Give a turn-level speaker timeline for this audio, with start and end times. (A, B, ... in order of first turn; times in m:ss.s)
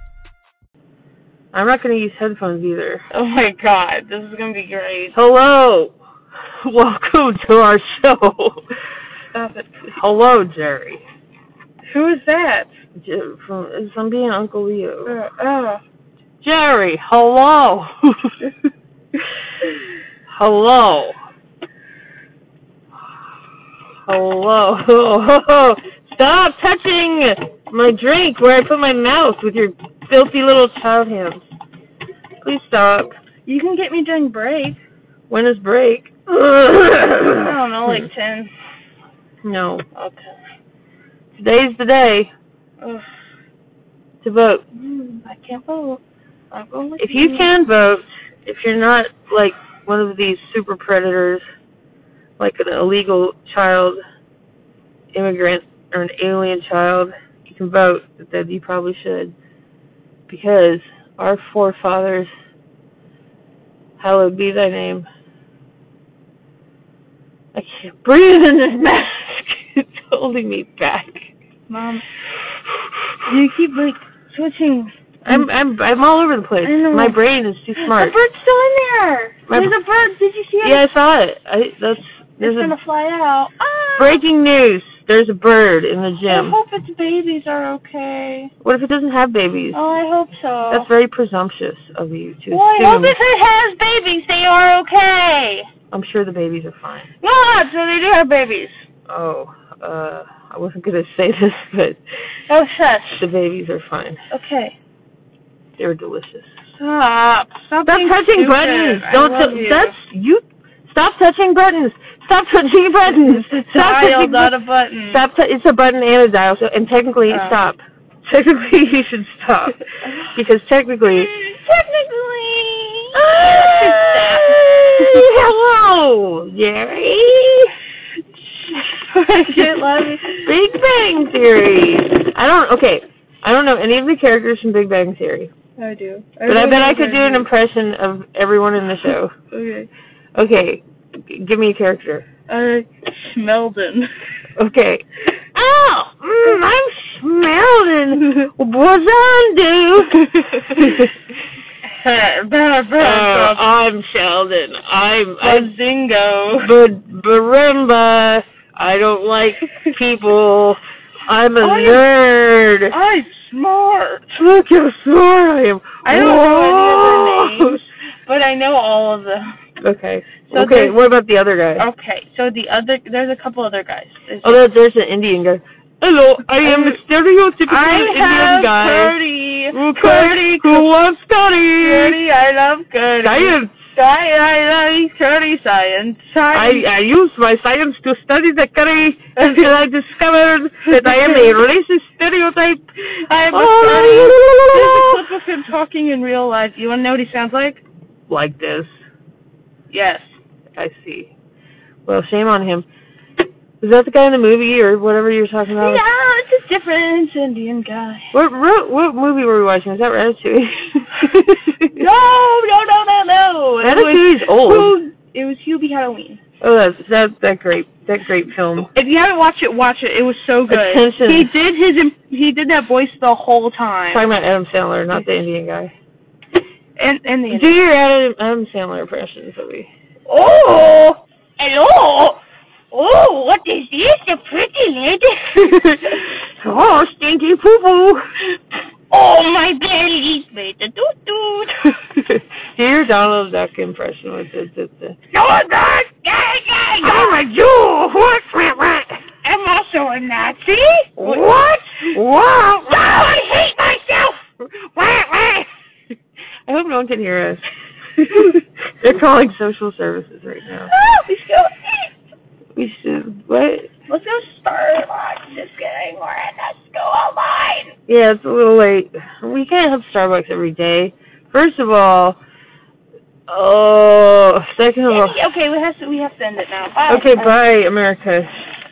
0:01.5-0:03.0 A
0:03.1-0:05.2 B
0:05.1-0:06.0 A
0:06.6-0:08.6 A
0:09.3-0:10.0 B
0:10.0-0:11.0 A
0:11.9-0:12.7 B
0:13.0-0:15.2 A
0:15.0-0:15.8 B
0:16.4-0:18.3 A
0:20.3-0:21.2 A
0:24.0-0:31.4 A
0:32.4-0:33.1 A
0:33.4-0:34.8 B
0:35.3-0:38.1 A
0:37.4-0:38.5 B
0:39.4-0:39.8 A
0:39.9-0:40.4 B
0:41.3-0:42.3 A
0:42.8-0:43.0 B
0:44.2-0:44.6 A
0:44.8-0:47.5 B
0:47.0-0:51.4 A
0:52.4-0:54.0 A
0:55.1-0:59.3 A
1:00.3-1:02.3 A
1:04.0-1:05.1 A
1:07.5-1:11.3 A
1:11.7-1:12.0 B
1:13.2-1:15.4 B
1:15.2-1:18.2 A
1:16.6-1:17.2 B
1:17.8-1:20.8 B
1:20.6-1:22.7 A
1:22.4-1:24.2 B
1:24.0-1:26.6 A
1:26.3-1:28.5 B
1:28.6-1:29.8 A
1:29.7-1:30.9 B
1:30.7-1:33.2 A
1:32.5-1:35.7 B
1:35.9-1:37.1 A
1:37.2-1:38.8 B
1:39.1-1:42.0 A
1:42.5-1:43.2 B
1:43.2-1:44.2 A
1:44.3-1:44.7 B
1:45.8-1:46.5 A
1:46.8-1:50.0 B
1:47.8-1:54.5 A
1:53.6-1:55.2 B
1:55.1-1:59.8 A
1:57.3-1:57.6 B
2:00.3-2:01.3 A
2:01.0-2:05.3 B
2:03.1-2:07.7 A
2:08.6-2:10.5 B
2:10.4-2:15.5 A
2:15.8-2:17.5 B
2:16.5-2:19.3 A
2:19.5-2:19.9 B
2:20.3-2:22.2 A
2:22.5-2:24.1 B
2:24.6-2:31.1 A
2:28.2-2:28.5 B
2:30.2-2:30.8 B
2:31.8-2:33.7 B
2:33.0-2:35.7 A
2:35.4-2:36.7 B
2:36.6-2:43.0 A
2:41.6-2:42.1 B
2:42.9-2:44.4 B
2:44.3-2:47.8 A
2:46.0-2:49.5 B
2:49.8-2:51.9 A
2:50.5-2:51.0 B
2:51.8-2:54.6 B
2:54.4-2:59.2 A
2:56.6-2:57.0 B
2:57.6-3:00.9 B
2:59.7-3:02.2 A
3:01.8-3:06.9 B
3:03.2-3:03.7 A
3:06.5-3:12.8 A
3:09.4-3:09.7 B
3:10.8-3:11.6 B
3:13.1-3:17.8 B
3:13.5-3:15.2 A
3:18.3-3:18.9 A
3:19.9-3:20.3 B
3:20.8-3:21.3 A
3:22.0-3:22.9 A
3:23.8-3:26.0 A
3:25.8-3:28.3 B
3:28.3-3:32.0 A
3:31.9-3:36.4 B
3:33.8-3:34.9 A
3:36.6-3:38.9 A
3:38.9-3:44.3 B
3:40.7-3:41.5 A
3:44.1-3:45.9 A
3:47.0-3:47.8 B
3:47.5-3:49.9 A
3:50.3-3:52.4 B
3:52.9-3:56.2 B
3:55.6-3:58.2 A
3:59.1-4:02.1 B
4:02.1-4:05.2 A
4:05.3-4:07.4 B
4:07.0-4:09.2 A
4:09.4-4:12.2 B
4:11.2-4:13.5 A
4:13.1-4:14.4 B
4:14.6-4:15.7 A
4:16.6-4:17.6 A
4:18.2-4:20.9 A
4:20.9-4:22.1 B
4:22.8-4:23.9 A
4:24.1-4:27.9 B
4:28.1-4:32.4 A
4:33.5-4:35.4 A
4:35.1-4:37.5 B
4:37.1-4:38.5 A